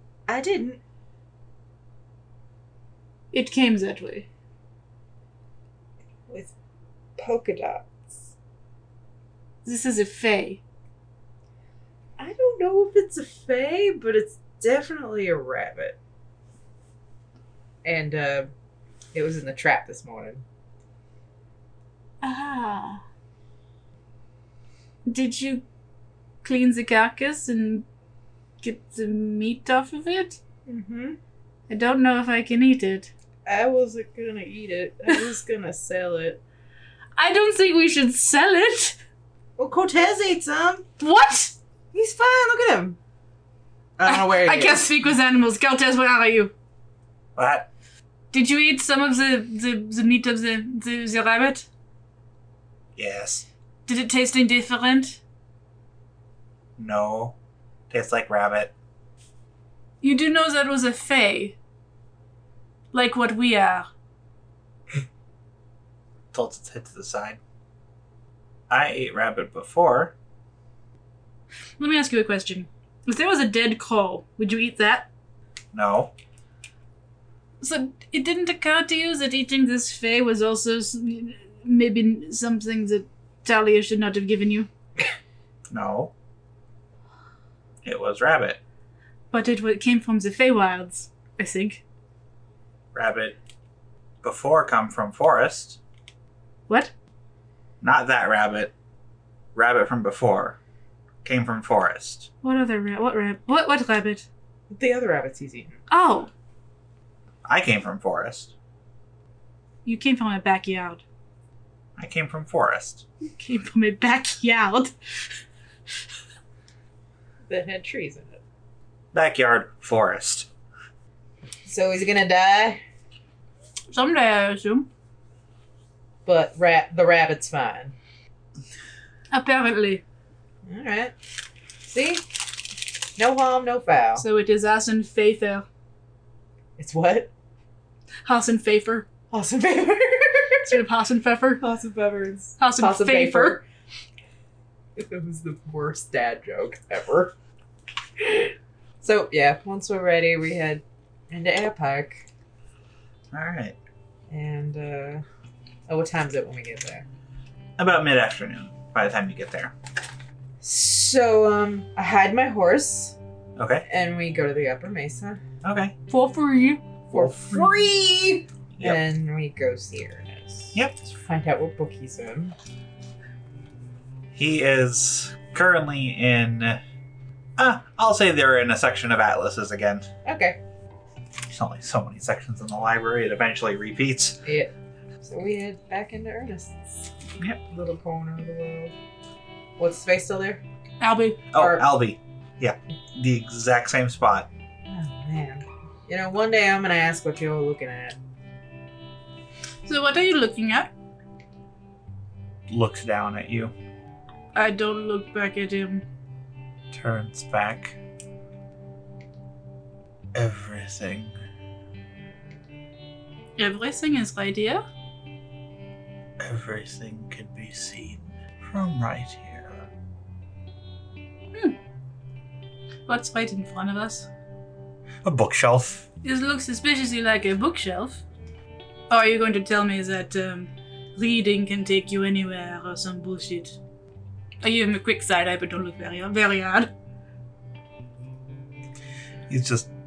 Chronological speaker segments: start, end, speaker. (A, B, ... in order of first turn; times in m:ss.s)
0:00.3-0:00.8 A
0:03.3-0:04.3 B
0:07.2-0:08.3 A
0:09.6-0:10.6 B
0:12.2-0:16.0 A
0:17.8-0:18.5 A
0:19.1-0:20.4 A
0:22.2-0:23.0 B
0:25.1-0:25.6 B
0:26.4-0:27.9 B
0:28.6-0:30.4 B
0:30.7-0:31.2 A
0:31.7-0:33.1 B
0:33.5-0:36.4 A
0:37.2-0:39.0 B
0:39.6-0:40.8 A
0:41.0-0:41.5 B
0:41.9-0:43.0 A
0:44.0-0:44.9 A
0:44.1-0:46.5 B
0:47.4-0:47.7 C
0:48.3-0:51.7 B
0:53.0-0:53.4 C
0:53.9-0:55.2 B
0:56.8-0:57.4 C
0:57.9-0:58.7 C
1:00.0-1:01.6 B
1:02.9-1:03.9 B
1:06.3-1:07.4 C
1:08.7-1:10.1 C
1:11.8-1:15.1 B
1:15.7-1:16.1 C
1:17.6-1:24.7 B
1:25.7-1:26.1 C
1:27.8-1:28.6 C
1:29.3-1:31.8 B
1:32.9-1:33.4 C
1:34.2-1:35.8 C
1:37.8-1:38.7 C
1:39.6-1:40.6 C
1:41.2-1:42.3 C
1:42.4-1:44.2 B
1:44.7-1:45.8 A
1:45.9-1:46.3 B
1:47.5-1:48.5 C
1:49.8-1:51.0 B
1:52.0-1:53.0 C
1:53.3-1:54.9 B
1:57.5-1:58.4 A
1:59.1-2:00.5 C
2:01.6-2:02.8 A
2:03.9-2:04.9 B
2:06.2-2:08.0 A
2:09.3-2:10.0 B
2:10.6-2:11.1 A
2:11.8-2:12.2 A
2:13.2-2:14.2 A
2:14.2-2:15.6 B
2:16.8-2:17.3 A
2:18.2-2:19.1 B
2:19.3-2:20.7 A
2:20.6-2:21.6 B
2:21.6-2:23.6 A
2:22.6-2:23.6 B
2:25.0-2:27.3 A
2:28.2-2:32.2 A
2:33.3-2:33.8 C
2:34.3-2:35.2 A
2:35.9-2:37.1 A
2:37.8-2:39.7 C
2:40.6-2:43.2 A
2:43.6-2:43.8 C
2:43.9-2:45.4 A
2:45.6-2:46.0 C
2:46.1-2:46.8 B
2:47.1-2:47.9 C
2:47.1-2:52.6 A
2:50.7-2:51.1 C
2:54.3-2:56.8 C
2:57.6-3:00.1 C
3:00.2-3:00.6 A
3:01.5-3:04.4 C
3:04.4-3:04.7 A
3:05.2-3:07.1 A
3:07.6-3:08.9 A
3:09.8-3:10.6 A
3:11.0-3:11.4 B
3:11.5-3:14.5 C
3:11.6-3:11.8 A
3:14.9-3:18.2 A
3:19.9-3:20.9 B
3:22.7-3:23.7 C
3:24.6-3:26.0 B
3:26.9-3:28.0 C
3:30.3-3:31.4 C
3:33.6-3:34.8 B
3:36.4-3:39.9 C
3:43.1-3:44.3 B
3:45.2-3:46.1 C
3:46.2-3:48.2 B
3:49.1-3:53.8 B
3:54.6-3:56.9 B
3:59.5-3:59.9 C